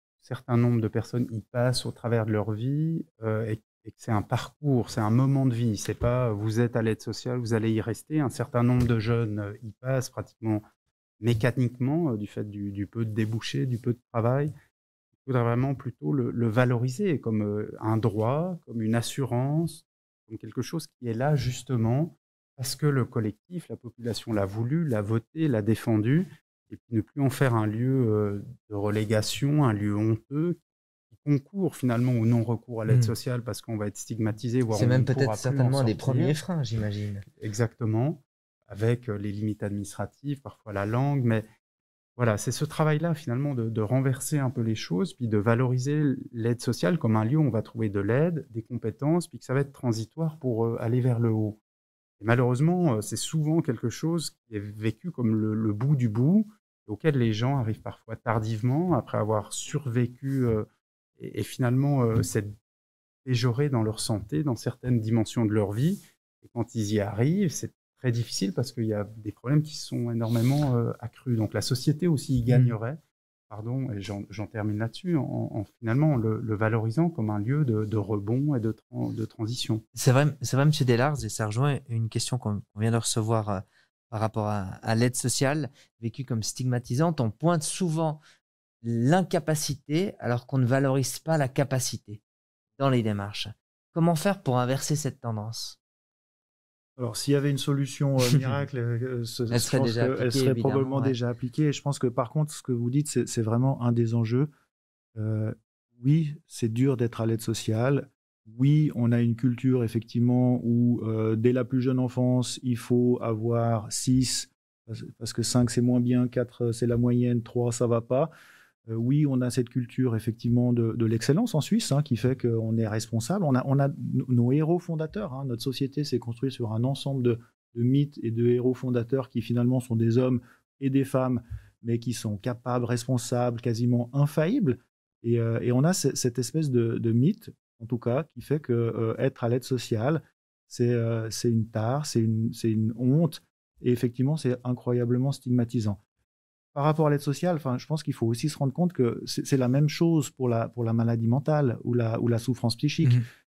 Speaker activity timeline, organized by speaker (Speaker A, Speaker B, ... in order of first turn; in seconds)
Speaker A: 0.2-10.6, 11.2-14.5, 15.2-30.6, 31.1-36.4, 37.4-41.5, 42.2-51.6, 52.2-60.7, 61.2-62.6, 63.2-73.0, 73.5-79.8
Speaker B: 32.9-33.1, 34.7-37.3, 72.5-72.8, 79.9-88.2, 88.8-92.2, 92.8-95.8, 99.5-101.2
Speaker C: 97.0-104.5, 105.2-118.3, 118.9-146.0, 146.7-153.2